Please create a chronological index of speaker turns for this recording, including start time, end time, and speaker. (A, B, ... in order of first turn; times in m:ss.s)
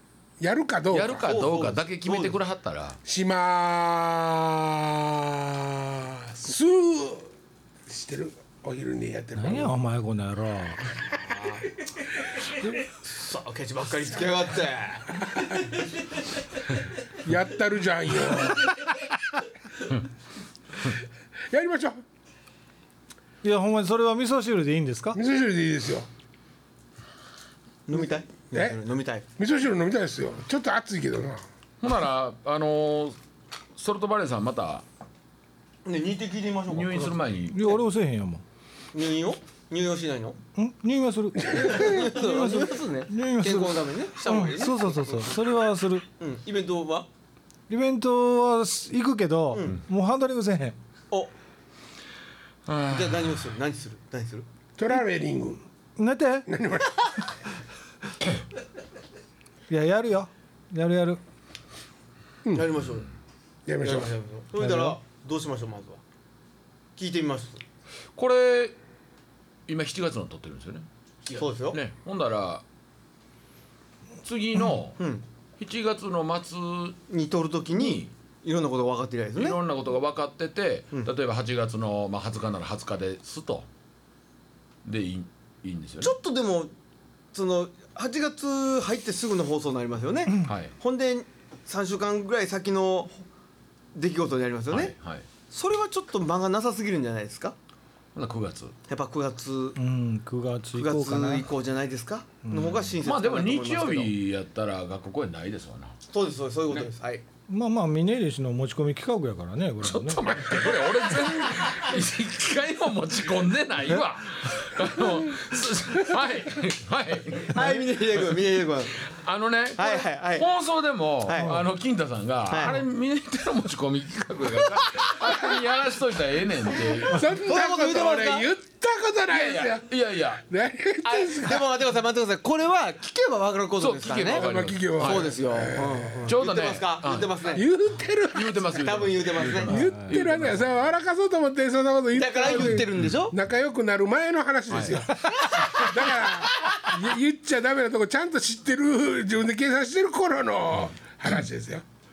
0:00.4-0:01.3 A
0:00.9-0:03.0 B
0:01.2-0:02.4 C
0:03.0-0:07.3 A
0:07.9-0:09.8 A
0:09.4-0:10.8 D
0:11.2-0:11.7 C
0:12.8-0:15.9 C
0:17.2-0:18.8 A
0:21.5-0:22.0 A
0:23.4-0:25.2 D
0:25.1-0:26.1 A
0:27.9-0:29.2 C
0:28.5-0:28.8 A
0:29.4-0:31.4 A
0:31.8-0:33.2 B
0:33.8-0:34.8 B
0:35.8-0:37.2 C
0:36.7-0:37.7 B
0:37.5-0:38.4 D
0:38.9-0:40.4 C
0:40.6-0:46.0 D
0:41.4-0:42.1 A
0:41.5-0:45.3 C
0:46.2-0:47.1 C
0:47.7-0:50.8 D
0:52.7-0:53.4 B
0:52.8-0:54.4 C
0:54.8-0:55.6 A
0:56.0-0:56.5 D
0:56.5-0:57.2 A
0:59.7-1:01.2 D
1:02.5-1:03.1 C
1:03.6-1:04.1 A
1:03.8-1:06.0 C
1:04.6-1:05.0 D
1:07.0-1:07.6 C
1:08.2-1:08.8 B
1:09.7-1:12.6 B
1:11.3-1:11.8 C
1:14.2-1:15.0 B
1:15.0-1:15.2 C
1:15.6-1:17.0 B
1:17.1-1:19.6 C
1:17.7-1:18.1 B
1:19.3-1:23.7 B
1:24.8-1:26.2 B
1:26.0-1:26.7 C
1:27.3-1:33.2 C
1:30.4-1:30.7 B
1:33.9-1:34.9 C
1:34.7-1:35.2 B
1:35.5-1:37.6 C
1:38.1-1:38.7 B
1:38.9-1:39.8 C
1:39.8-1:41.5 D
1:40.7-1:44.1 C
1:42.4-1:42.9 D
1:43.0-1:45.9 B
1:46.1-1:47.2 C
1:47.5-1:50.2 D
1:49.8-1:58.4 B
1:50.4-1:50.8 A
1:57.5-1:59.0 C
1:59.0-2:07.3 B
1:59.8-2:00.5 C
2:01.2-2:01.6 C
2:02.5-2:02.8 C
2:04.7-2:05.5 C
2:07.0-2:11.7 A
2:07.4-2:08.5 C
2:09.3-2:10.4 B
2:11.0-2:17.6 C
2:13.8-2:15.4 B
2:14.3-2:16.3 A
2:16.2-2:17.6 B
2:17.4-2:18.7 A
2:18.3-2:20.7 B
2:18.7-2:19.9 C
2:19.6-2:31.8 A
2:22.1-2:23.3 C
2:24.7-2:25.1 B
2:25.5-2:26.9 C